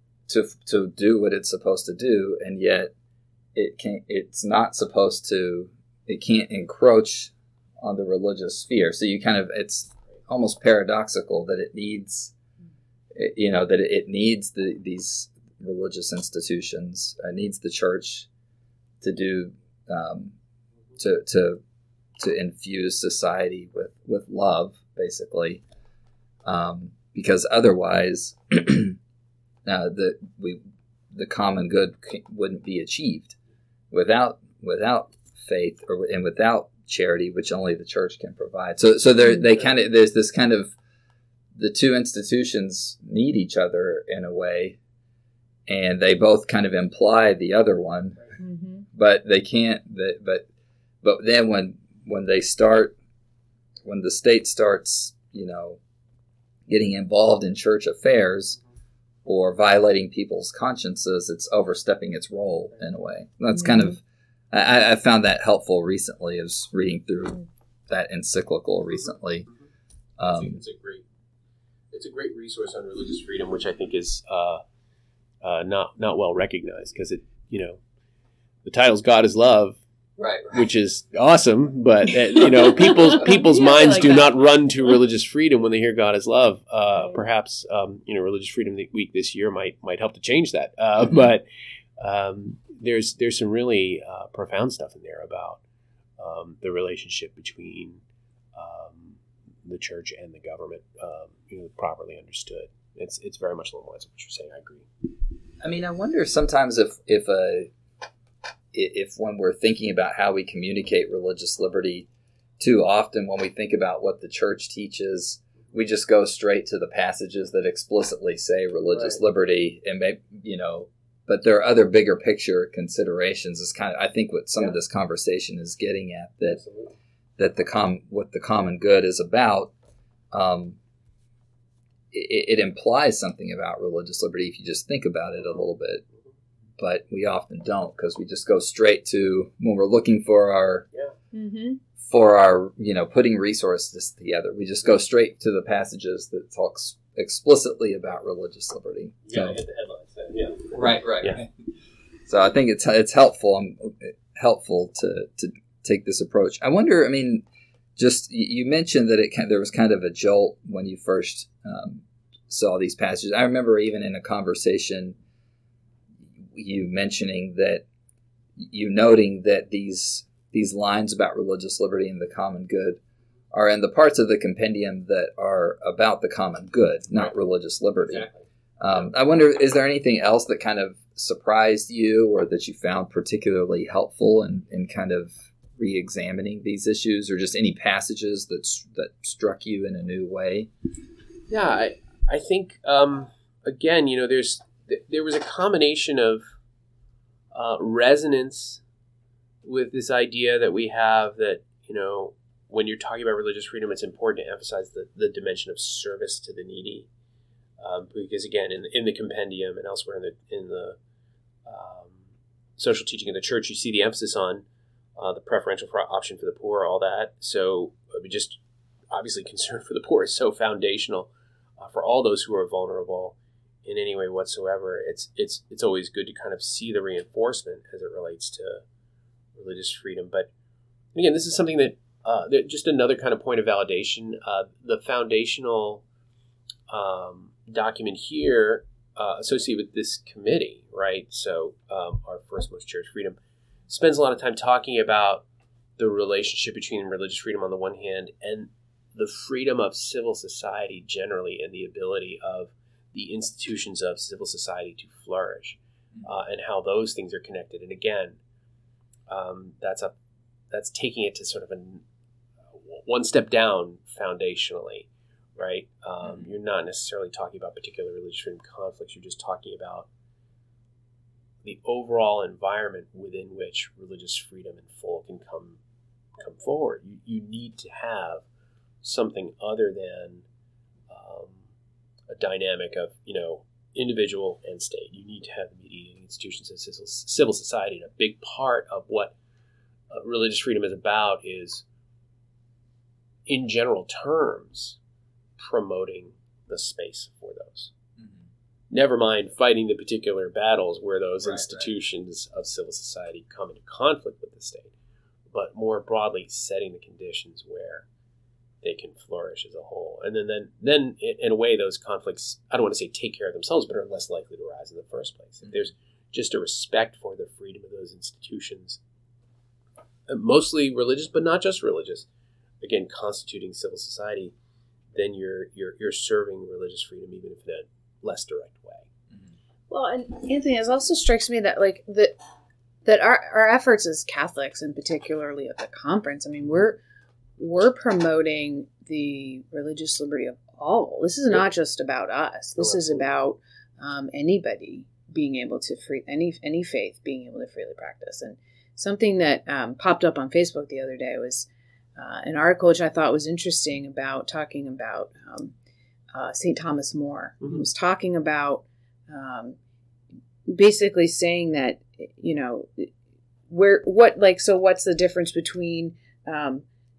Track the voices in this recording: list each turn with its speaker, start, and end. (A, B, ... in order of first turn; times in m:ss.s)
0:00.3-0:02.9 A
0:03.5-0:12.3 A
0:13.1-0:18.3 A
0:19.0-0:20.3 A
0:21.0-0:21.6 A
0:22.2-0:25.6 A
0:26.4-0:29.0 A
0:29.6-0:30.6 A
0:31.1-0:33.4 A
0:33.9-0:40.7 A
0:41.6-0:44.8 A
0:45.7-0:48.2 A
0:48.4-0:48.8 B
0:48.9-0:50.4 A
0:51.0-0:53.0 A
0:53.8-0:55.8 A
0:56.7-0:58.6 A
0:59.2-1:09.5 A
1:10.2-1:10.6 A
1:10.3-1:11.0 C
1:11.9-1:14.6 C
1:15.4-1:17.8 C
1:18.6-1:19.8 C
1:20.2-1:20.6 A
1:20.5-1:31.4 C
1:23.1-1:24.3 B
1:32.0-1:35.6 C
1:36.2-1:38.0 C
1:38.5-1:44.9 C
1:45.6-1:47.7 A
1:48.7-1:52.1 A
1:52.6-2:06.6 A
1:58.9-1:59.2 C
2:06.5-2:06.9 C
2:07.4-2:09.7 A
2:10.3-2:10.8 A
2:12.1-2:16.0 A
2:16.8-2:20.9 A
2:21.3-2:21.8 B
2:22.0-2:29.6 A
2:29.2-2:31.4 C
2:30.7-2:31.5 A
2:32.2-2:37.4 A
2:38.0-2:45.2 A
2:46.5-2:47.8 A
2:48.6-2:53.0 A
2:53.5-2:58.3 A
2:58.0-2:58.4 C
2:58.8-3:10.7 A
3:11.5-3:16.4 C
3:17.5-3:18.8 C
3:19.6-3:27.1 C
3:27.8-3:31.0 C
3:31.6-3:32.2 C
3:32.8-3:34.6 C
3:35.2-3:38.6 C
3:39.1-3:48.8 C
3:49.5-3:50.5 C
3:51.1-3:56.0 C
3:56.9-4:03.4 C
4:03.9-4:05.4 C
4:06.0-4:18.4 C
4:19.3-4:20.1 C
4:20.7-4:22.0 C
4:22.7-4:30.1 C
4:31.6-4:35.8 C
4:36.4-4:38.4 C
4:39.0-4:40.4 C
4:41.1-4:41.6 C
4:42.3-4:49.3 C
4:50.1-4:51.8 C
4:53.5-4:55.0 C
4:55.6-4:57.9 C
4:58.9-5:04.9 C
5:01.4-5:01.9 A
5:05.5-5:08.0 C
5:08.8-5:19.0 C
5:20.3-5:22.3 C
5:22.8-5:24.5 C
5:25.1-5:29.0 C
5:29.9-5:32.3 B
5:33.0-5:37.0 B
5:37.6-5:55.7 B
5:42.8-5:43.2 C
5:56.3-5:59.8 B
6:00.7-6:03.1 B
6:03.7-6:06.8 B